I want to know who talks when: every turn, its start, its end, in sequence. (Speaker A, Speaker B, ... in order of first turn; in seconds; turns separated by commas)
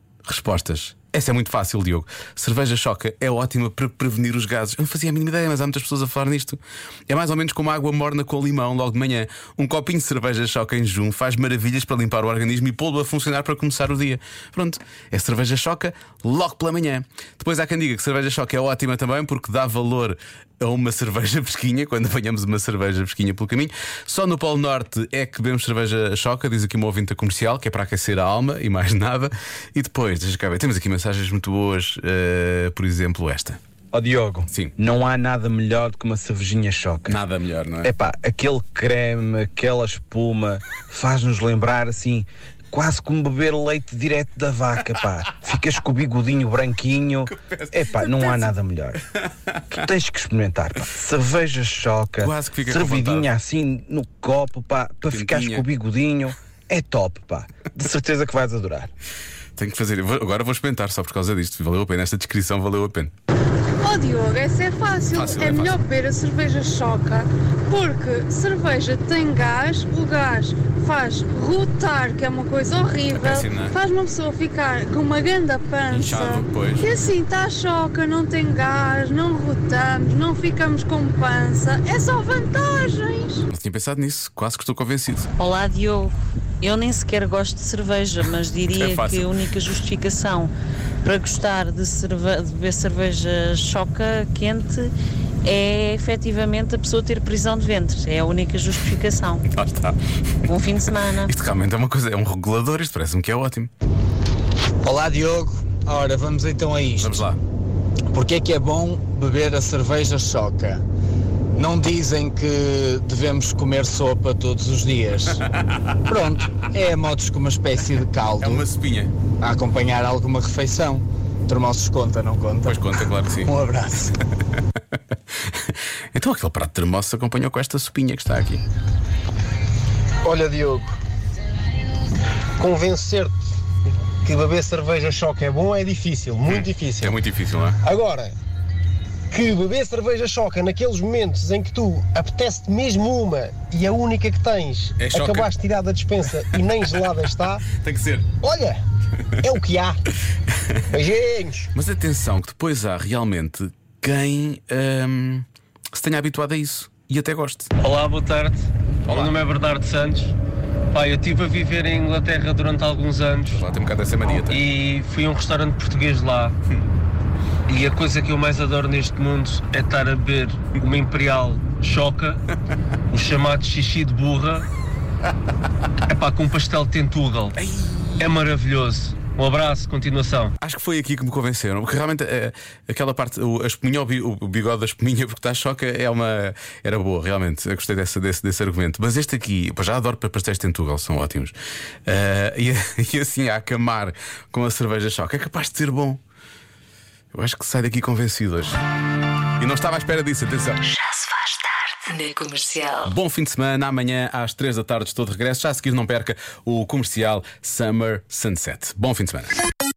Speaker A: 0.2-33.6, Speaker B: 33.9-37.2, Speaker A: 34.5-34.7, Speaker A: 37.1-37.9, Speaker B: 37.8-49.0, Speaker A: 47.3-48.5, Speaker A: 49.1-49.6, Speaker B: 49.7-58.9, Speaker A: 52.2-53.3, Speaker A: 55.1-55.6, Speaker A: 59.5-63.1, Speaker C: 63.8-83.4, Speaker A: 65.1-65.8, Speaker A: 73.1-73.7, Speaker A: 75.9-76.9, Speaker A: 83.5-85.3, Speaker C: 85.4-86.0, Speaker D: 85.5-86.1, Speaker C: 86.6-90.0, Speaker D: 86.8-90.5, Speaker A: 88.7-89.3, Speaker D: 91.0-94.9, Speaker C: 91.1-91.4, Speaker C: 94.4-94.7, Speaker D: 95.5-99.4, Speaker C: 98.8-99.2, Speaker A: 99.5-100.0, Speaker C: 100.7-101.2, Speaker D: 100.8-101.2, Speaker A: 101.2-103.7, Speaker E: 104.9-107.0, Speaker A: 107.0-107.4, Speaker E: 108.2-110.8, Speaker E: 111.6-115.3, Speaker A: 115.7-115.9, Speaker E: 116.3-118.6, Speaker A: 118.4-119.1, Speaker E: 119.4-122.7, Speaker A: 122.6-123.5, Speaker E: 123.4-123.8, Speaker A: 126.1-128.6, Speaker F: 130.2-130.9, Speaker F: 132.6-133.3, Speaker F: 134.2-137.1, Speaker A: 136.4-137.8, Speaker F: 137.8-138.3, Speaker F: 139.3-147.6, Speaker A: 145.0-145.5, Speaker A: 146.3-147.1, Speaker A: 147.7-148.3, Speaker F: 148.4-148.8, Speaker F: 149.4-150.0, Speaker F: 150.9-151.7, Speaker A: 151.7-157.7, Speaker G: 157.8-160.3, Speaker A: 159.1-159.3, Speaker G: 160.9-163.6, Speaker A: 163.5-164.6, Speaker G: 164.3-166.5, Speaker G: 167.7-172.4, Speaker G: 173.1-174.7, Speaker G: 176.1-177.5, Speaker A: 177.6-178.3, Speaker G: 178.2-180.5, Speaker A: 180.6-191.5, Speaker A: 192.1-196.2, Speaker A: 197.3-198.8, Speaker A: 199.6-200.8, Speaker H: 200.9-203.1, Speaker A: 203.0-209.5